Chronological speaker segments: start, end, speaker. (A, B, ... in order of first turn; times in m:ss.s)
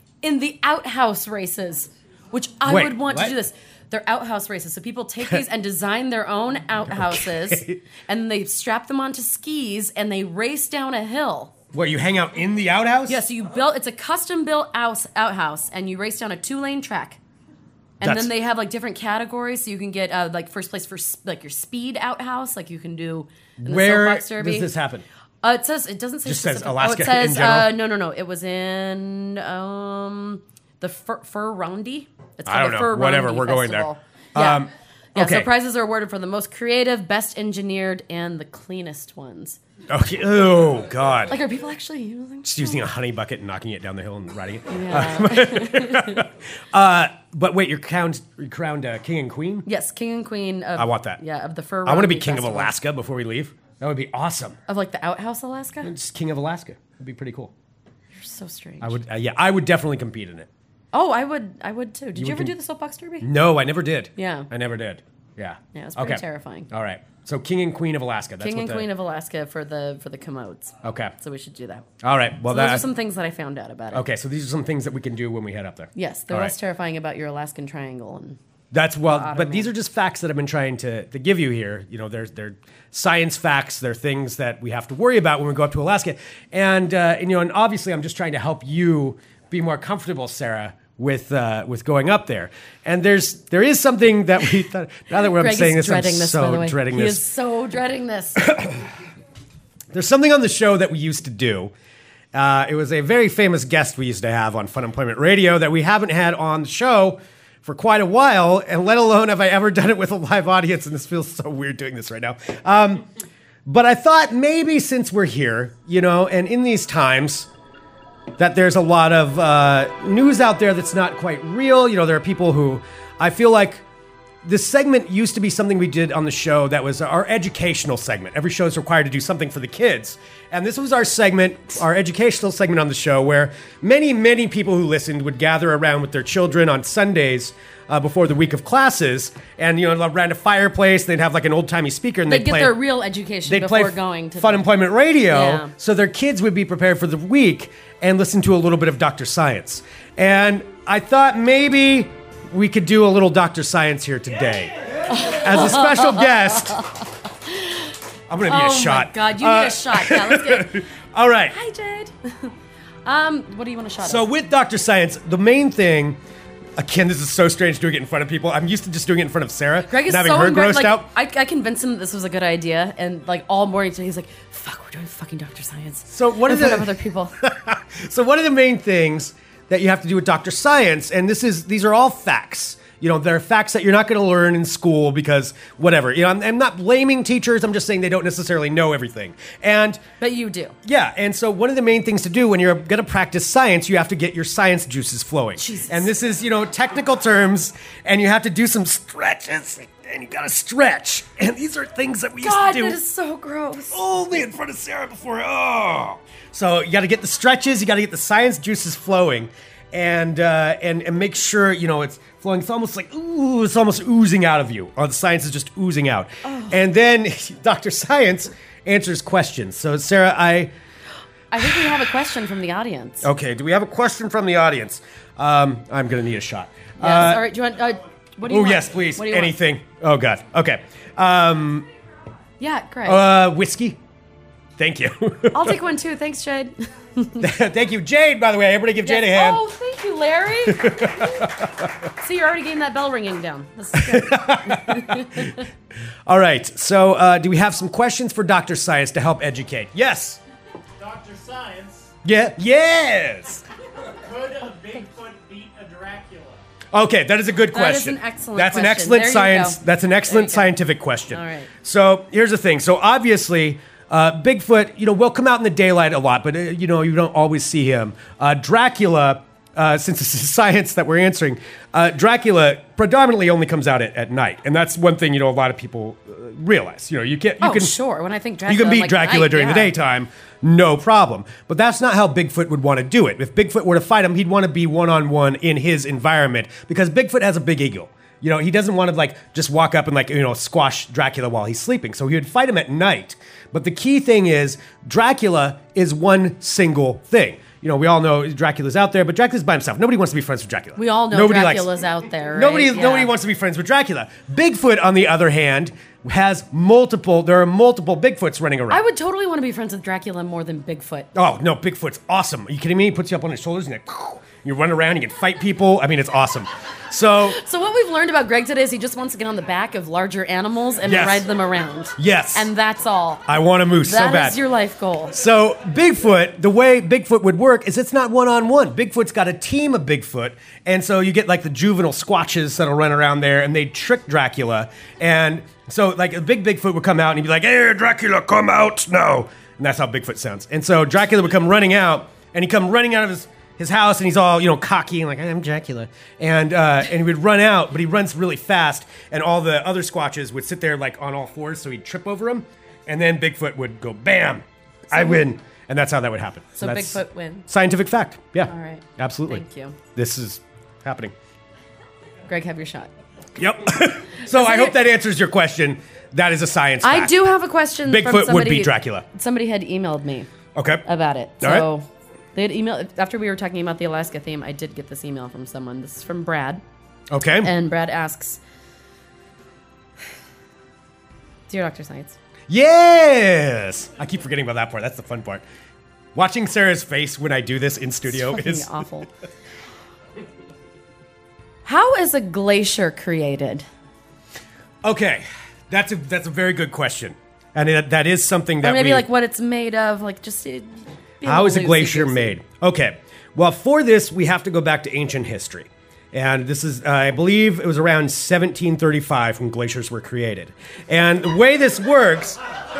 0:00.2-0:11.5 A
0:02.6-0:03.4 B
0:06.9-0:07.8 B
0:11.7-0:13.2 B
0:13.1-0:17.2 A
0:18.0-0:24.7 A
0:18.0-0:18.3 B
0:23.6-0:25.0 B
0:25.4-0:39.6 A
0:26.2-0:27.8 B
0:32.4-0:35.5 B
0:39.9-0:41.4 B
0:41.3-0:42.8 A
0:42.4-0:49.7 B
0:44.7-0:46.2 A
0:49.6-0:52.7 A
0:50.8-0:51.2 B
0:51.8-0:54.6 B
0:54.7-0:55.9 A
0:55.8-0:57.5 B
0:58.1-0:59.0 A
0:58.8-1:00.5 B
1:00.9-1:03.3 A
1:02.2-1:02.5 B
1:03.2-1:08.9 B
1:04.2-1:04.5 A
1:05.7-1:06.7 A
1:08.4-1:11.9 A
1:10.8-1:11.1 B
1:12.0-1:12.8 B
1:12.5-1:14.0 A
1:13.9-1:16.5 B
1:15.9-1:18.4 A
1:18.7-1:37.2 B
1:19.0-1:19.7 A
1:35.2-1:38.5 A
1:38.4-1:38.8 B
1:39.9-1:41.7 B
1:42.3-1:53.0 B
1:53.6-1:57.5 B
1:58.4-2:03.8 B
2:04.4-2:22.7 B
2:22.3-2:24.7 A
2:23.4-2:36.9 B
2:25.3-2:25.7 A
2:35.1-2:40.8 A
2:38.3-2:41.6 B
2:41.5-2:42.5 A
2:43.0-2:44.2 A
2:44.0-2:46.2 B
2:46.8-2:51.0 B
2:49.8-2:57.3 A
2:56.1-3:10.0 B
3:10.2-3:10.8 A
3:10.8-3:23.0 B
3:15.6-3:16.1 A
3:22.4-3:24.0 A
3:23.9-3:40.7 B
3:36.4-3:36.8 A
3:41.5-3:43.2 A
3:43.2-3:47.5 B
3:47.0-3:49.6 A
3:48.5-3:51.9 B
3:52.6-3:53.2 A
3:53.0-3:54.0 B
3:54.8-3:55.8 B
3:55.5-3:57.5 A
3:57.4-3:59.6 B
3:59.0-4:01.5 A
4:00.7-4:01.9 B
4:02.2-4:05.6 A
4:03.9-4:05.6 B
4:06.3-4:10.4 B
4:11.0-4:12.1 C
4:12.2-4:13.6 B
4:14.1-4:16.6 C
4:16.9-4:37.9 B
4:17.7-4:20.7 A
4:21.3-4:21.7 A
4:37.6-4:39.9 A
4:38.7-5:01.9 B
5:01.0-5:03.3 A
5:02.5-5:09.0 B
5:08.9-5:11.3 A
5:11.3-5:17.6 B
5:17.4-5:23.5 A
5:21.1-5:21.4 B
5:22.2-5:22.7 B
5:23.5-5:24.6 B
5:24.0-5:25.4 A
5:25.3-5:59.6 B
5:55.1-5:55.5 A
5:56.8-5:57.7 A
5:58.6-6:00.0 A
6:00.1-6:01.3 B
6:02.4-6:03.1 A
6:03.6-6:07.5 B
6:04.4-6:05.0 A
6:07.0-6:10.5 A
6:08.0-6:09.2 B
6:10.7-6:11.0 B
6:11.0-6:16.8 A
6:11.6-6:11.9 B
6:17.3-6:17.7 B
6:17.5-6:18.6 A
6:21.7-6:22.4 A
6:22.7-6:25.6 B
6:26.3-6:28.9 B
6:28.2-6:29.3 A
6:31.8-6:33.8 A
6:35.0-6:39.2 B
6:38.8-6:42.6 A
6:41.4-6:52.6 B